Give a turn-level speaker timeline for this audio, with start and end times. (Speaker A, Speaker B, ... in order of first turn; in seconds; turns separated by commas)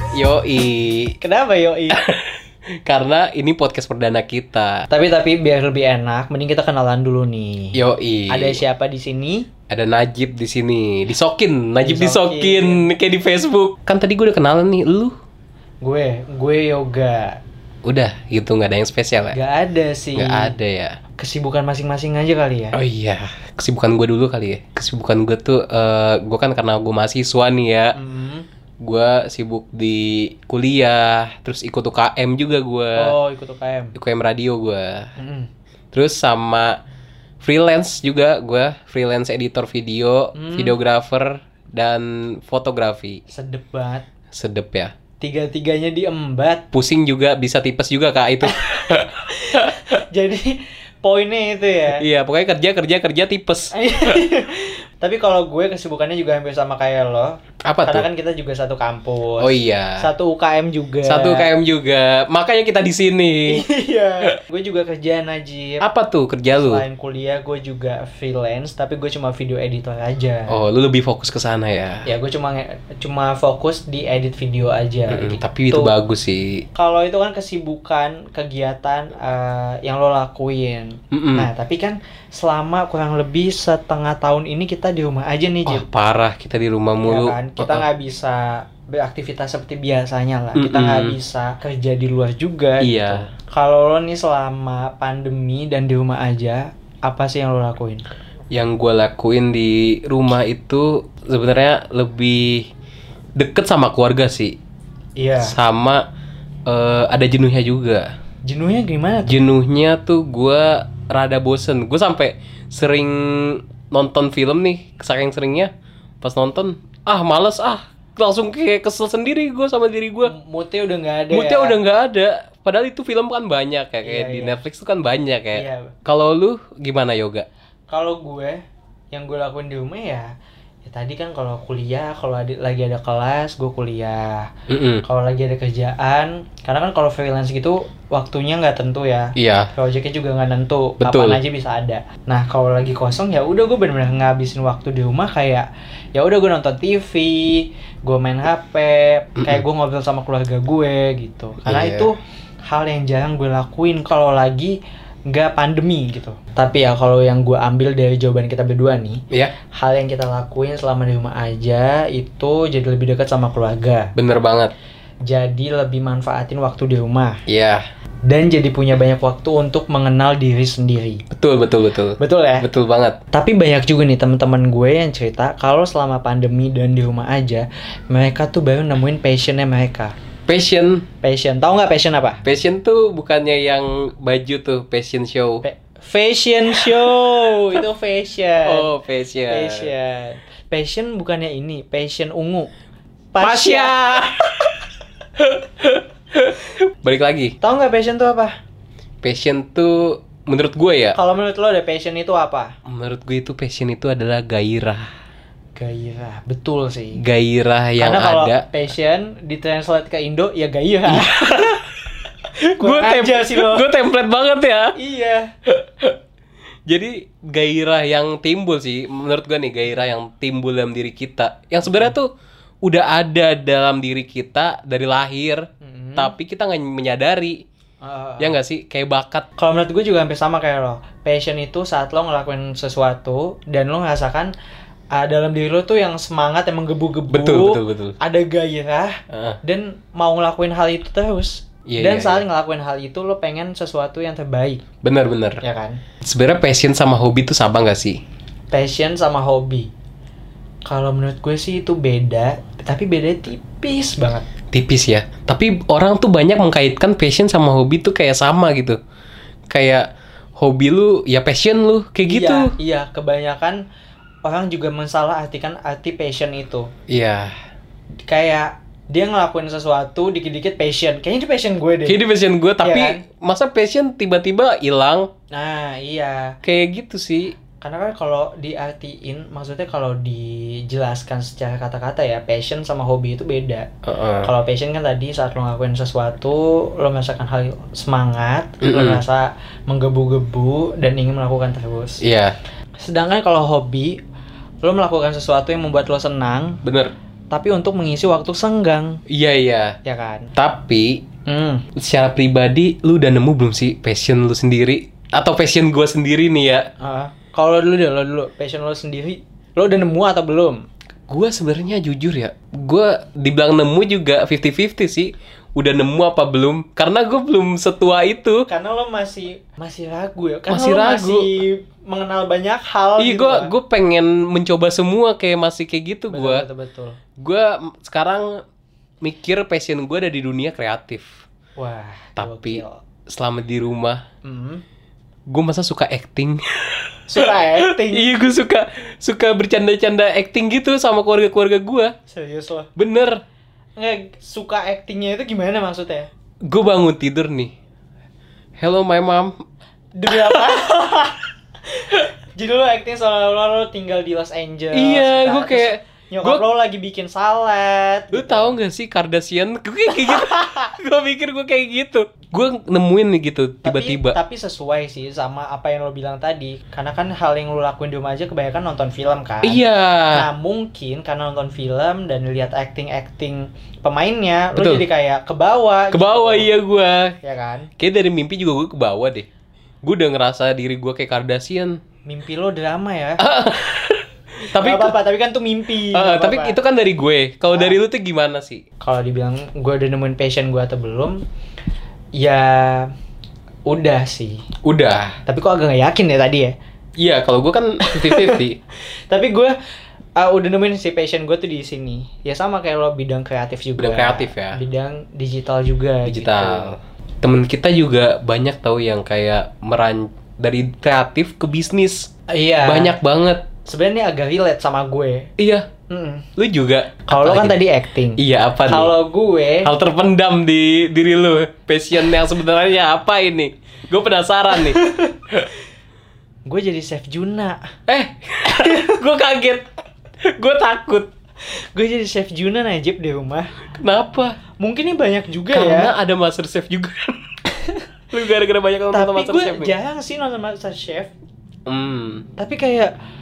Speaker A: 0.1-1.1, Speaker B: 1.2-2.0, Speaker A: 1.9-4.9, Speaker B: 4.9-9.5, Speaker A: 7.7-8.6, Speaker A: 9.7-15.1, Speaker B: 11.8-12.9, Speaker B: 15.8-17.4, Speaker A: 17.8-19.4, Speaker B: 19.3-20.5, Speaker A: 20.1-21.0, Speaker B: 21.2-22.8, Speaker A: 22.7-27.9, Speaker B: 27.9-28.4, Speaker A: 28.8-33.1, Speaker B: 33.0-33.9, Speaker A: 33.9-35.1, Speaker B: 35.2-35.5, Speaker A: 35.9-36.8, Speaker A: 37.4-43.2, Speaker B: 40.3-40.8, Speaker B: 43.3-44.1, Speaker A: 44.3-44.9, Speaker B: 45.2-46.6, Speaker A: 46.7-49.9, Speaker B: 49.5-52.0, Speaker A: 51.9-54.2, Speaker B: 53.7-61.5, Speaker A: 57.6-58.0, Speaker A: 59.4-60.1, Speaker A: 61.0-63.6, Speaker B: 63.5-65.8, Speaker A: 65.8-66.8, Speaker B: 66.5-70.6, Speaker A: 70.5-72.1, Speaker B: 72.0-75.9, Speaker A: 75.1-76.6, Speaker B: 76.7-85.8, Speaker A: 81.1-81.5, Speaker A: 85.7-87.8, Speaker B: 87.0-98.0, Speaker A: 90.5-91.2, Speaker A: 92.8-93.3, Speaker A: 98.5-102.7, Speaker A: 103.4-104.6, Speaker B: 105.2-105.5, Speaker A: 105.4-106.0, Speaker A: 106.7-108.1, Speaker B: 108.4-109.3, Speaker A: 109.3-115.7, Speaker A: 116.2-120.3, Speaker B: 120.2-121.8, Speaker A: 121.3-127.5, Speaker B: 124.0-124.6, Speaker B: 125.5-125.9, Speaker B: 127.9-128.6, Speaker B: 129.1-130.3, Speaker B: 130.8-134.5, Speaker A: 134.7-135.0, Speaker B: 135.0-154.8, Speaker A: 139.4-139.7, Speaker A: 141.0-141.4, Speaker A: 151.6-152.1, Speaker B: 155.3-159.2, Speaker B: 159.7-164.1, Speaker A: 164.2-164.7, Speaker B: 165.2-167.4, Speaker A: 167.5-167.8, Speaker B: 168.2-171.2, Speaker A: 171.3-173.2, Speaker B: 172.2-172.7, Speaker B: 173.3-180.1, Speaker A: 180.5-181.1, Speaker B: 181.2-182.4, Speaker A: 182.4-185.6, Speaker B: 185.6-188.9, Speaker A: 186.7-187.8, Speaker A: 188.6-189.9, Speaker B: 189.5-192.7, Speaker B: 193.3-194.2, Speaker A: 193.4-194.9, Speaker A: 195.4-197.6, Speaker B: 197.6-198.5, Speaker A: 199.2-201.2, Speaker B: 201.1-202.7, Speaker A: 202.8-205.1, Speaker B: 205.8-207.2, Speaker A: 207.2-208.7, Speaker B: 208.0-211.6, Speaker A: 211.1-211.9, Speaker A: 212.6-214.9, Speaker B: 212.8-213.8, Speaker B: 214.9-215.5, Speaker A: 215.7-216.2, Speaker A: 216.9-222.3, Speaker A: 222.8-225.6, Speaker B: 225.8-226.3, Speaker A: 226.2-227.6, Speaker B: 228.0-228.5, Speaker A: 228.4-229.5, Speaker B: 229.6-234.5, Speaker B: 235.1-244.8, Speaker A: 237.3-238.2, Speaker A: 239.3-239.6, Speaker A: 241.9-242.4, Speaker A: 245.0-245.6, Speaker B: 245.6-246.0, Speaker A: 246.2-248.2, Speaker B: 248.7-249.9, Speaker B: 250.8-254.5, Speaker A: 254.7-259.0, Speaker A: 259.7-262.7, Speaker B: 262.2-263.8, Speaker B: 264.4-266.9, Speaker A: 267.1-267.5, Speaker B: 268.3-272.2, Speaker A: 272.1-275.3, Speaker B: 272.8-273.2, Speaker B: 275.5-276.6, Speaker A: 276.6-277.5, Speaker B: 277.8-283.9, Speaker A: 284.1-284.5, Speaker B: 284.4-292.2, Speaker A: 288.8-289.2, Speaker A: 292.2-292.6, Speaker B: 293.0-294.2, Speaker B: 294.8-296.8, Speaker A: 296.8-297.1, Speaker B: 297.5-299.2, Speaker A: 299.3-300.0, Speaker B: 300.0-300.5, Speaker A: 300.6-301.2, Speaker B: 301.4-301.9, Speaker A: 301.9-306.9, Speaker B: 307.0-310.8, Speaker A: 311.3-318.7, Speaker B: 318.7-323.7, Speaker A: 320.7-321.5, Speaker A: 323.2-326.6, Speaker B: 326.3-327.2, Speaker A: 327.4-328.6, Speaker A: 329.2-331.4, Speaker B: 331.8-333.0, Speaker A: 332.4-334.2, Speaker B: 334.4-334.8, Speaker A: 335.5-342.1, Speaker B: 337.3-338.3, Speaker B: 342.3-342.9, Speaker A: 343.0-343.4, Speaker B: 344.0-346.3, Speaker A: 346.6-347.7, Speaker A: 348.8-349.6, Speaker B: 350.1-351.4, Speaker A: 350.3-350.9, Speaker B: 352.0-358.8, Speaker A: 354.9-356.6, Speaker A: 358.3-364.4, Speaker B: 360.1-360.8, Speaker B: 363.8-376.7, Speaker A: 369.6-370.5, Speaker A: 374.8-375.1, Speaker A: 376.1-377.4, Speaker B: 377.4-377.9, Speaker A: 378.0-379.5, Speaker A: 380.0-382.0, Speaker B: 382.2-383.4, Speaker A: 383.4-385.1, Speaker B: 384.8-386.8, Speaker A: 386.1-388.8, Speaker B: 389.0-391.4, Speaker B: 392.4-393.1, Speaker B: 393.9-394.6, Speaker A: 394.8-395.4, Speaker B: 395.4-396.7, Speaker A: 397.2-398.8, Speaker B: 398.1-398.6, Speaker B: 399.3-399.8, Speaker B: 400.4-406.9, Speaker A: 404.0-404.8, Speaker A: 406.2-412.3, Speaker B: 412.5-413.2, Speaker A: 412.8-413.7, Speaker B: 413.8-415.5, Speaker A: 415.6-415.9, Speaker B: 416.1-416.5, Speaker A: 416.6-417.8, Speaker B: 417.3-419.9, Speaker A: 418.4-419.1, Speaker A: 419.8-425.7, Speaker B: 424.8-425.3, Speaker B: 426.7-427.9, Speaker A: 428.1-429.9, Speaker A: 430.4-431.3, Speaker B: 431.9-433.7, Speaker A: 433.9-434.6, Speaker B: 434.8-436.1, Speaker A: 435.7-437.6, Speaker A: 438.3-439.9, Speaker B: 439.1-441.3, Speaker A: 441.9-442.5, Speaker B: 442.6-443.1